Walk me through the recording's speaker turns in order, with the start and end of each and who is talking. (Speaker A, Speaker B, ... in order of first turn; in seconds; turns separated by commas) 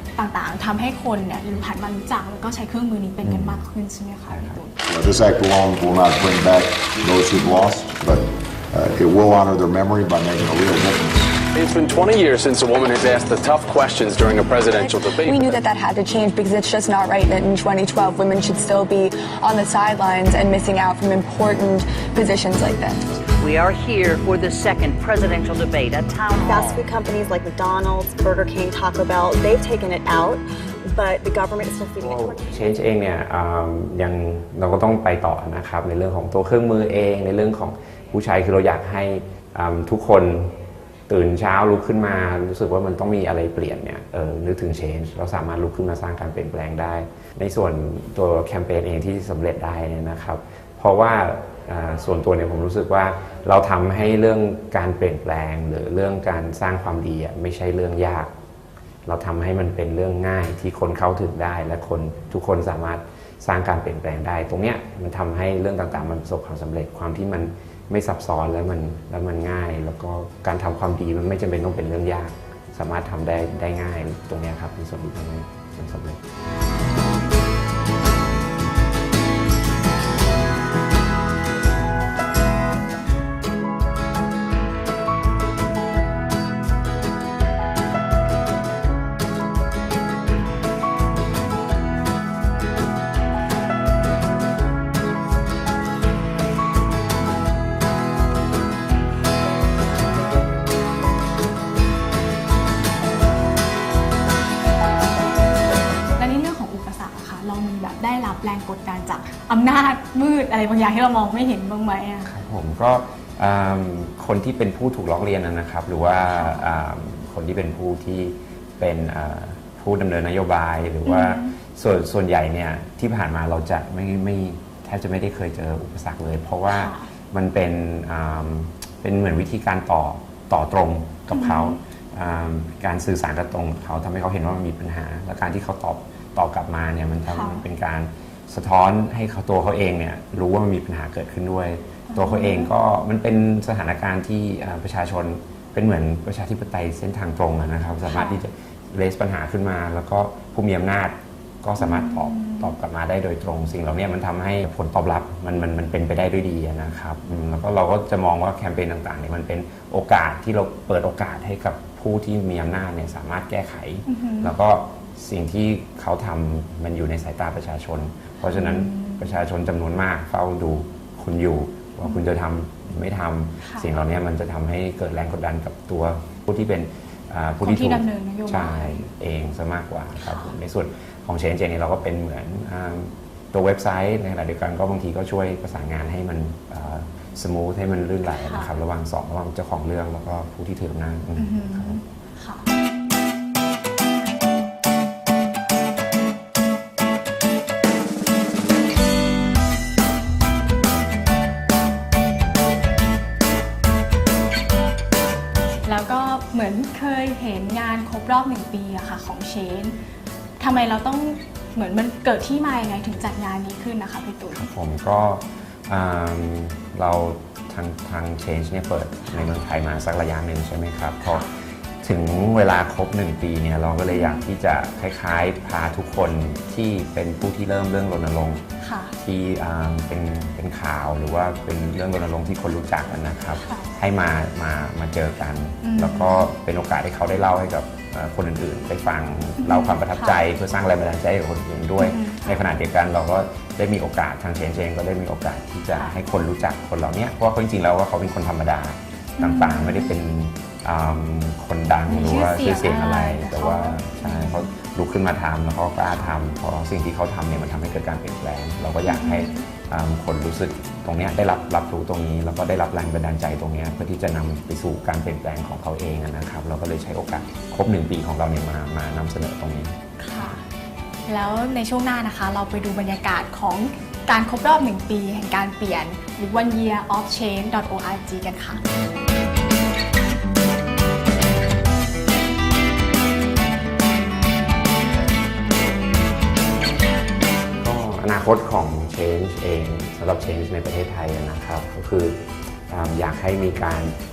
Speaker A: 0.1-4.7, Speaker B: 3.2-3.6, Speaker B: 4.3-4.6, Speaker C: 4.8-11.3, Speaker D: 11.5-15.6, Speaker E: 14.8-23.0, Speaker F: 23.4-26.8, Speaker G: 26.4-32.4, Speaker B: 32.2-40.5, Speaker B: 41.1-58.3, Speaker B: 59.0-76.2, Speaker A: 106.2-112.3, Speaker B: 112.2-192.0, Speaker A: 116.3-116.7, Speaker A: 121.0-121.5, Speaker A: 126.7-127.1, Speaker A: 131.3-131.8, Speaker A: 137.3-137.6, Speaker A: 142.1-142.7, Speaker A: 148.1-148.4, Speaker A: 151.8-152.7, Speaker A: 164.1-164.6, Speaker A: 168.5-169.3, Speaker A: 177.6-179.0, Speaker A: 180.2-180.5, Speaker A: 188.3-188.7, Speaker A: 191.4-192.7, Speaker A: 205.8-209.9, Speaker A: 210.6-214.7, Speaker B: 214.5-221.5, Speaker A: 221.2-221.5, Speaker B: 222.0-228.6, Speaker A: 224.1-224.4, Speaker A: 228.8-229.1, Speaker B: 229.2-269.9, Speaker A: 233.6-233.9, Speaker A: 235.8-236.5, Speaker A: 239.6-240.4, Speaker A: 242.0-242.6, Speaker A: 249.4-250.2, Speaker A: 252.1-254.7, Speaker A: 259.1-259.7, Speaker A: 270.2-270.6, Speaker A: 271.3-278.8, Speaker B: 287.8-294.1